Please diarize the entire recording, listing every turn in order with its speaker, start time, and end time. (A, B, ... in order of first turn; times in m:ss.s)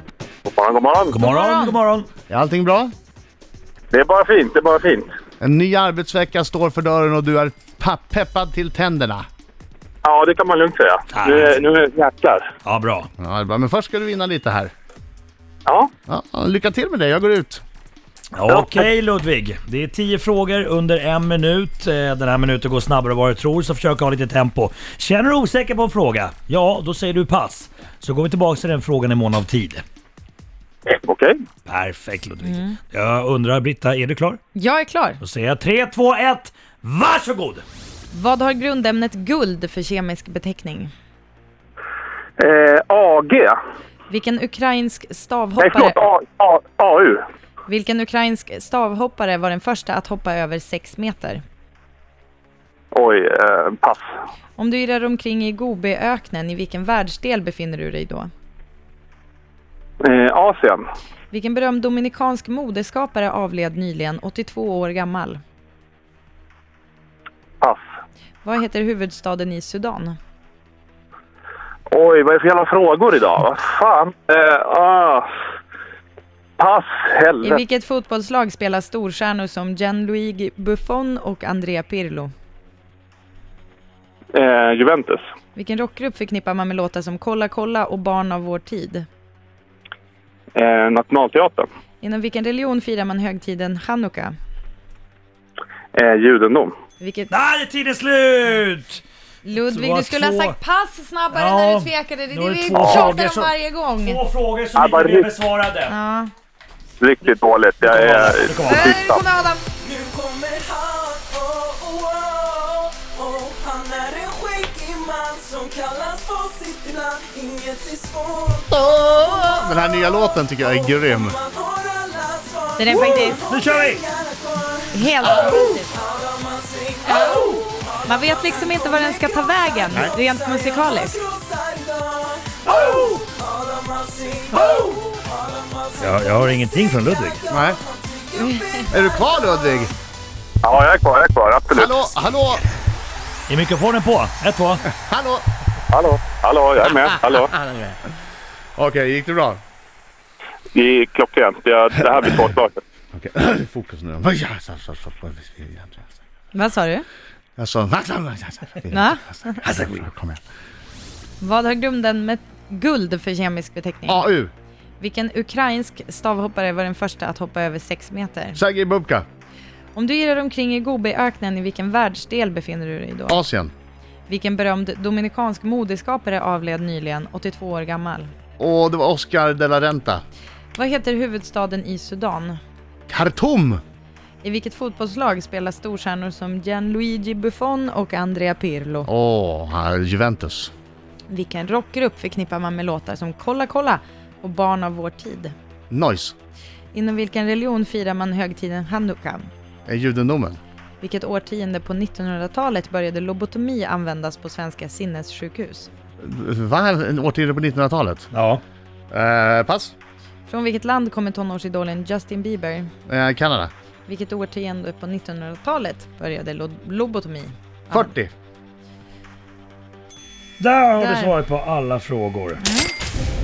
0:00.4-0:01.2 A
0:01.1-0:02.1 B
0:01.2-0:01.8 C
0:02.3-0:02.9 D
0:03.9-0:05.1 A
0:05.4-0:09.2 D
0:10.0-0:12.5 A
0:11.1-0:11.6 B
0:12.6-0:13.1 B
0:13.2-0:14.7 D
0:16.1-0:17.6 D
0:18.3-0:29.8 B
0:18.5-0:18.8 A
0:30.9-0:31.4 A
0:31.6-0:34.4 B
0:32.4-0:32.8 C
0:34.5-0:35.2 C
0:35.2-0:37.6 B
0:38.1-0:40.9 C
0:42.4-0:43.6 A
0:44.1-0:45.9 C
0:45.6-0:47.2 A
0:47.7-0:51.4 C
0:52.9-0:54.0 A
0:54.6-0:58.3 C
1:00.0-1:00.8 A
1:01.3-1:05.4 C
1:08.4-1:10.2 C
1:11.9-1:15.2 A
1:16.6-1:17.6 A
1:17.4-1:22.3 C
1:24.3-1:25.2 A
1:25.5-1:29.0 C
1:30.6-1:31.6 A
1:32.0-1:34.3 C
1:35.9-1:36.7 A
1:37.0-1:37.3 C
1:37.3-1:39.0 B
1:39.4-1:44.2 C
1:39.5-1:40.6 B
1:41.3-1:45.9 B
1:42.8-1:43.1 A
1:44.8-1:45.3 A
1:45.9-1:46.3 C
1:47.0-1:49.2 A
1:47.8-1:49.0 B
1:48.6-1:49.6 C
1:49.8-1:58.7 E
1:58.7-2:01.4 D
2:00.3-2:19.8 E
2:02.8-2:03.4 C
2:03.5-2:04.0 B
2:04.9-2:05.9 C
2:07.1-2:11.2 C
2:16.0-2:17.4 B
2:17.5-2:17.8 D
2:18.4-2:18.7 C
2:18.9-2:19.9 D
2:20.6-2:21.9 A
2:21.7-2:22.6 D
2:23.5-2:24.8 B
2:24.9-2:25.4 D
2:25.9-2:27.6 A
2:28.8-2:29.6 D
2:30.7-2:32.8 A
2:33.1-2:36.1 D
2:36.5-2:37.0 C
2:37.6-2:40.4 D
2:38.9-2:39.6 C
2:41.4-2:44.3 C
2:44.1-2:44.5 D
2:45.0-2:48.6 C
2:48.5-2:49.2 D
2:49.9-2:53.4 C
2:53.3-2:53.7 D
2:54.3-2:58.3 C
2:58.6-3:00.2 D
3:00.7-3:02.6 C
3:03.1-3:03.8 D
3:04.4-3:09.1 C
3:09.0-3:10.7 D
3:11.3-3:15.5 C
3:15.9-3:16.3 D
3:16.9-3:19.5 C
3:19.8-3:20.6 D
3:21.0-3:25.9 C
3:26.2-3:28.3 D
3:28.3-3:28.6 B
3:29.1-3:29.9 D
3:30.5-3:32.9 C
3:33.1-3:33.7 D
3:34.1-3:38.1 C
3:37.9-3:38.3 D
3:40.6-3:42.6 B
3:41.0-3:41.3 C
3:42.6-3:42.9 C